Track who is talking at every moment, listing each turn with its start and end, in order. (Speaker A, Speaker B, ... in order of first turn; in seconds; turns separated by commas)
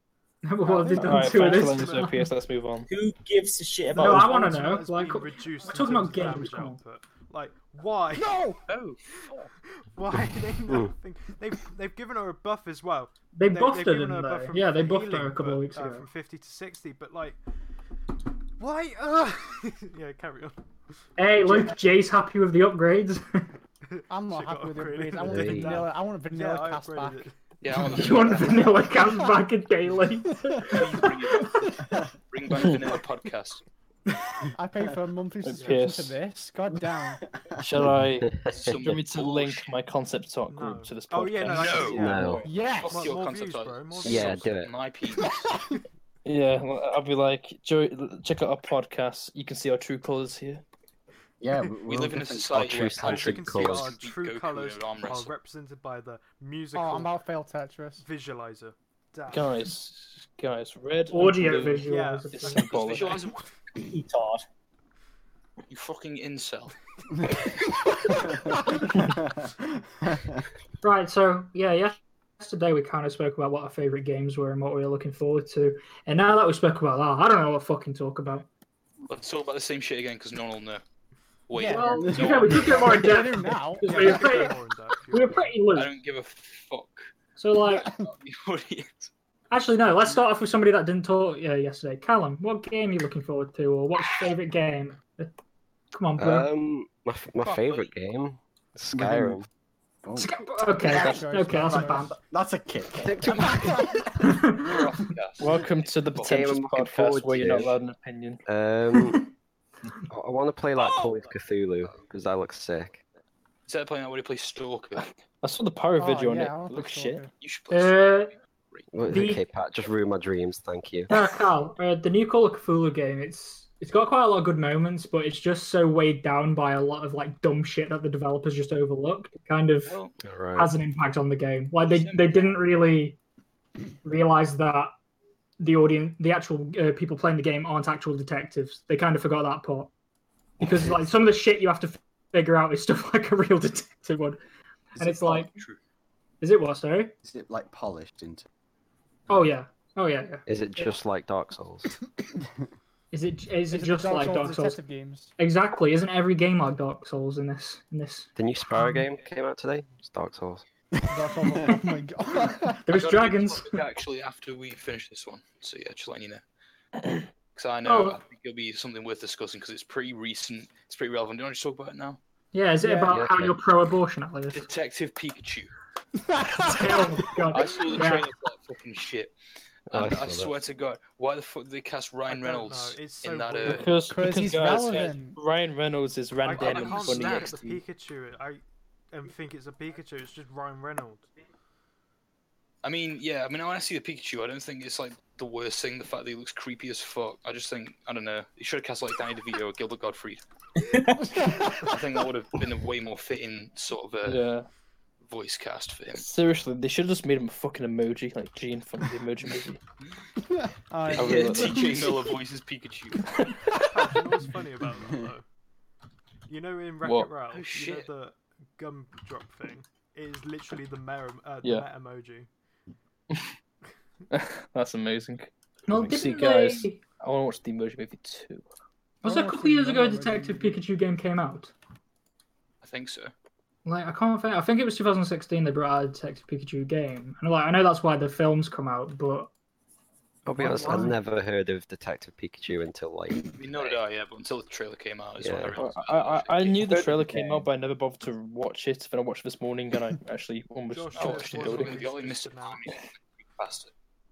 Speaker A: 0.4-2.3, Speaker B: 0.7-1.5, Speaker C: 0.8-2.2, Speaker D: 1.0-2.9, Speaker E: 2.9-4.4, Speaker A: 3.9-6.8, Speaker C: 3.9-8.4, Speaker B: 8.1-8.6, Speaker F: 8.7-9.5, Speaker C: 9.9-17.4, Speaker A: 13.3-16.1, Speaker C: 18.6-20.6, Speaker A: 21.2-23.5, Speaker C: 23.9-27.4, Speaker B: 24.1-27.3, Speaker G: 25.2-25.9, Speaker F: 27.6-28.9, Speaker A: 27.7-31.1, Speaker B: 28.9-29.3, Speaker B: 30.4-30.8, Speaker F: 30.6-33.6, Speaker B: 34.5-37.2, Speaker D: 35.4-36.2, Speaker C: 35.5-35.9, Speaker D: 37.6-42.4, Speaker G: 37.8-38.8, Speaker F: 38.5-39.7, Speaker C: 40.5-44.6, Speaker F: 41.4-45.5, Speaker G: 42.0-42.4, Speaker B: 42.4-43.1, Speaker G: 44.0-44.7, Speaker D: 46.2-50.6, Speaker H: 51.4-52.8, Speaker F: 51.9-55.3, Speaker G: 52.5-54.0, Speaker C: 52.9-57.2, Speaker B: 56.7-58.0, Speaker C: 58.0-59.7, Speaker D: 59.3-63.3, Speaker A: 61.1-62.7, Speaker C: 61.8-63.3, Speaker F: 62.7-63.5, Speaker E: 63.7-64.4, Speaker F: 65.7-66.8, Speaker A: 70.8-78.5, Speaker F: 79.1-80.8, Speaker F: 81.5-83.2, Speaker B: 81.5-84.5, Speaker A: 81.7-84.6, Speaker C: 83.8-85.7, Speaker A: 85.1-85.9, Speaker F: 85.7-87.1, Speaker A: 87.4-87.9, Speaker F: 87.8-89.1, Speaker A: 89.5-95.3, Speaker A: 95.9-96.5, Speaker G: 96.2-99.5, Speaker F: 97.4-97.9, Speaker H: 98.9-99.4, Speaker H: 100.0-100.3, Speaker A: 100.2-102.1, Speaker B: 100.8-102.1, Speaker D: 100.9-101.3, Speaker H: 101.6-103.8, Speaker G: 103.0-103.8, Speaker A: 104.2-104.8, Speaker F: 104.6-106.5, Speaker D: 105.4-108.4, Speaker G: 106.2-107.7, Speaker G: 108.5-109.2, Speaker G: 110.1-113.0, Speaker F: 113.7-115.1, Speaker D: 115.0-117.2, Speaker B: 116.0-117.3, Speaker F: 117.4-118.9, Speaker A: 117.7-118.3, Speaker G: 118.9-121.1, Speaker A: 119.1-119.4, Speaker A: 121.1-130.0, Speaker F: 129.8-130.2, Speaker G: 130.2-130.7, Speaker A: 130.6-133.2, Speaker F: 131.8-132.6, Speaker A: 134.0-134.9, Speaker A: 135.6-139.9, Speaker A: 140.6-144.4, Speaker H: 145.0-145.4, Speaker A: 145.0-145.5, Speaker F: 145.3-145.8, Speaker A: 146.4-147.1, Speaker H: 147.2-148.4, Speaker A: 149.3-150.9, Speaker G: 150.4-151.9, Speaker A: 153.1-154.8, Speaker B: 153.7-155.3, Speaker A: 155.4-159.1, Speaker G: 158.3-160.6, Speaker B: 161.1-162.8, Speaker A: 162.8-163.8, Speaker F: 162.9-166.4, Speaker F: 167.5-172.2, Speaker A: 167.8-168.2, Speaker A: 172.5-174.7, Speaker B: 172.8-173.2, Speaker G: 173.1-173.6, Speaker F: 174.5-175.7, Speaker B: 176.3-177.1, Speaker A: 176.6-178.3, Speaker F: 177.5-179.3, Speaker G: 179.9-180.5, Speaker F: 179.9-183.9, Speaker C: 182.3-183.9, Speaker D: 183.6-187.8, Speaker B: 184.0-185.4, Speaker F: 184.8-185.1, Speaker C: 186.4-191.3, Speaker F: 186.5-187.5, Speaker F: 192.8-200.4, Speaker B: 201.2-201.9, Speaker F: 201.9-204.4, Speaker D: 204.2-204.7, Speaker F: 205.2-206.2, Speaker D: 206.1-209.8, Speaker B: 210.6-212.2, Speaker F: 211.1-213.5, Speaker D: 211.1-211.8, Speaker C: 213.9-215.5, Speaker C: 216.5-222.5, Speaker D: 217.0-217.3, Speaker F: 217.5-218.1, Speaker D: 224.3-228.6, Speaker A: 225.9-227.0, Speaker B: 229.2-230.8, Speaker A: 229.2-231.7, Speaker F: 232.8-233.3, Speaker A: 233.8-239.5, Speaker G: 240.4-244.0, Speaker A: 240.6-241.2, Speaker F: 243.6-247.0, Speaker G: 245.4-245.8, Speaker D: 245.8-252.0, Speaker E: 246.8-247.7, Speaker C: 250.9-252.9, Speaker F: 251.1-253.9